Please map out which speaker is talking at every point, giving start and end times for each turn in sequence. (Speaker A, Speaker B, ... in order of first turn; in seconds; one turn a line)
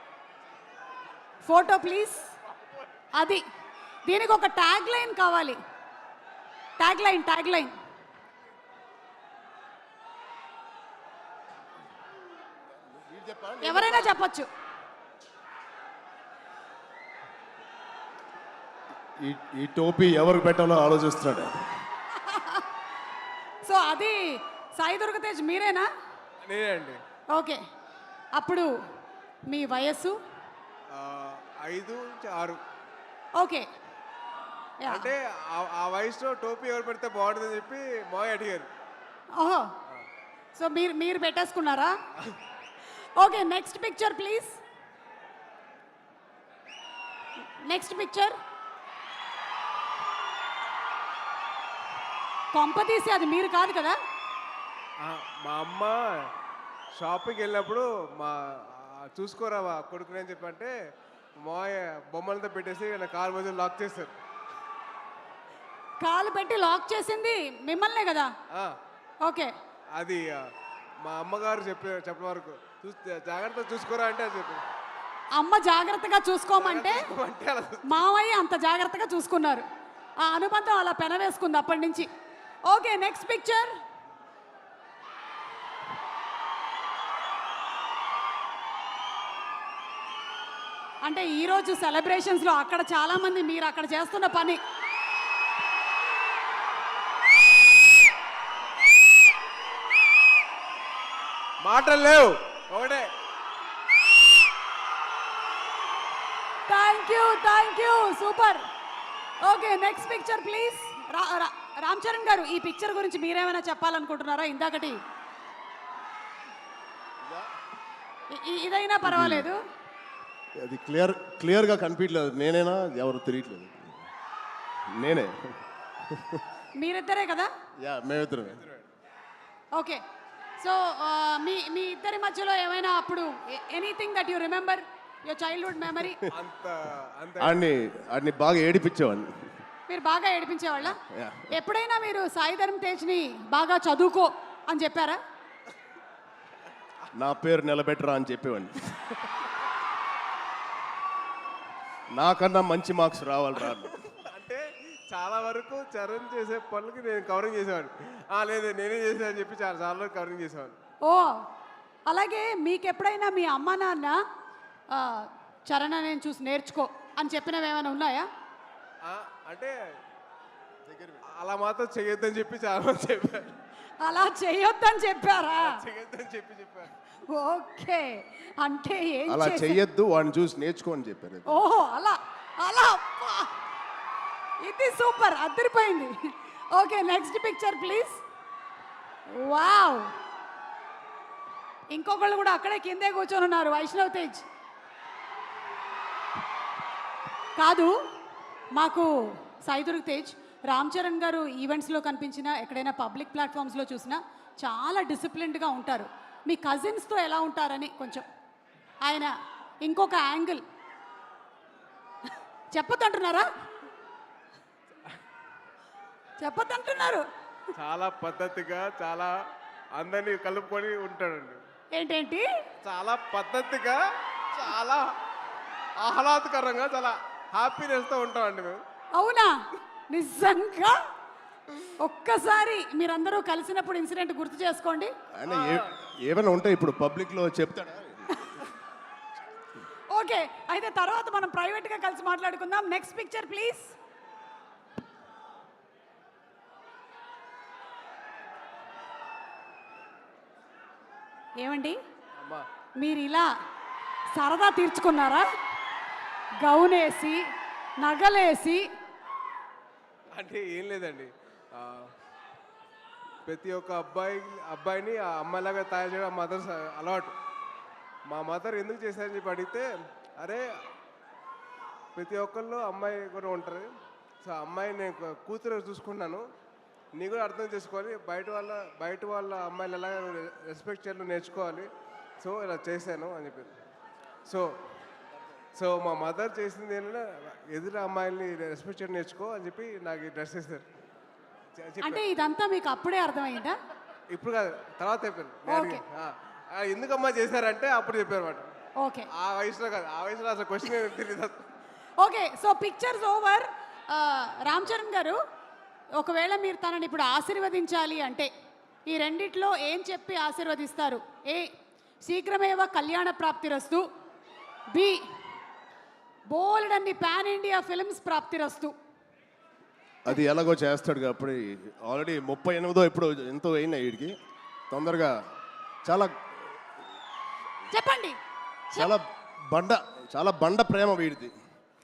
Speaker A: 1.4-2.3
Speaker A: 3.2-3.4
Speaker A: 4.1-5.6
Speaker A: 6.8-7.7
Speaker B: 12.8-14.1
Speaker A: 13.6-14.5
Speaker B: 19.2-21.6
Speaker A: 22.1-22.6
Speaker A: 23.6-25.9
Speaker C: 26.5-27.0
Speaker A: 27.3-27.6
Speaker A: 28.3-28.7
Speaker A: 29.5-30.2
Speaker C: 30.9-32.6
Speaker A: 33.4-33.7
Speaker A: 34.8-35.1
Speaker C: 34.9-38.7
Speaker A: 39.4-39.7
Speaker A: 40.5-42.0
Speaker A: 43.2-44.6
Speaker A: 47.6-48.4
Speaker A: 52.5-54.0
Speaker C: 55.0-56.3
Speaker C: 57.0-60.7
Speaker C: 61.4-64.1
Speaker A: 66.0-68.3
Speaker A: 69.2-69.5
Speaker C: 70.0-70.4
Speaker C: 71.0-74.6
Speaker A: 75.3-77.1
Speaker C: 76.6-77.9
Speaker A: 77.9-79.7
Speaker A: 80.2-82.1
Speaker A: 82.7-83.8
Speaker A: 91.0-94.6
Speaker C: 101.6-103.1
Speaker A: 106.7-108.7
Speaker A: 109.4-115.0
Speaker A: 118.3-119.6
Speaker B: 119.1-119.5
Speaker B: 120.6-124.0
Speaker B: 124.9-125.6
Speaker B: 126.1-126.4
Speaker A: 126.8-127.5
Speaker B: 127.8-128.6
Speaker C: 128.5-128.9
Speaker A: 129.8-130.0
Speaker A: 130.6-136.2
Speaker C: 136.3-137.7
Speaker B: 137.4-139.3
Speaker A: 139.9-141.0
Speaker B: 140.9-141.5
Speaker A: 141.5-145.2
Speaker B: 147.2-149.2
Speaker B: 152.1-153.9
Speaker C: 153.7-160.8
Speaker A: 161.1-161.4
Speaker A: 162.1-164.2
Speaker A: 164.9-168.3
Speaker C: 169.1-169.8
Speaker B: 170.9-171.2
Speaker C: 171.3-173.6
Speaker A: 174.0-175.8
Speaker C: 175.6-176.9
Speaker A: 177.3-179.8
Speaker B: 179.3-181.6
Speaker A: 181.5-183.5
Speaker A: 184.6-188.2
Speaker A: 189.3-190.1
Speaker A: 191.9-194.5
Speaker A: 197.6-197.9
Speaker A: 198.7-199.1
Speaker A: 199.6-208.3
Speaker A: 209.0-210.6
Speaker A: 212.7-213.5
Speaker A: 216.4-217.2
Speaker C: 217.8-219.3
Speaker C: 220.0-221.6
Speaker A: 221.9-222.5
Speaker C: 222.8-225.2
Speaker C: 226.0-228.8
Speaker A: 229.2-229.6
Speaker A: 230.1-231.0
Speaker A: 232.0-235.1
Speaker B: 235.4-238.5
Speaker C: 235.5-235.9
Speaker A: 240.1-243.9
Speaker A: 251.6-252.0
Speaker C: 252.4-252.7
Speaker A: 253.0-253.5
Speaker A: 254.3-255.5
Speaker A: 256.6-257.4
Speaker A: 258.0-258.9
Speaker C: 260.3-262.1
Speaker C: 263.5-267.3
Speaker C: 268.3-269.9
Speaker C: 270.4-270.6
Speaker C: 272.2-273.9
Speaker C: 274.4-276.4
Speaker C: 277.2-281.9
Speaker C: 282.4-283.8
Speaker C: 285.8-290.9
Speaker C: 291.8-292.2
Speaker A: 292.0-293.8
Speaker C: 294.3-298.7
Speaker A: 295.7-296.0
Speaker A: 299.0-299.3
Speaker C: 299.3-301.6
Speaker A: 302.2-305.4
Speaker A: 306.2-308.5
Speaker A: 309.1-311.7
Speaker A: 312.2-314.0
Speaker A: 314.9-315.2
Speaker A: 316.5-318.9
Speaker B: 320.2-324.4
Speaker B: 324.9-325.3
Speaker B: 326.1-326.3
Speaker A: 327.9-328.4
Speaker B: 329.0-331.5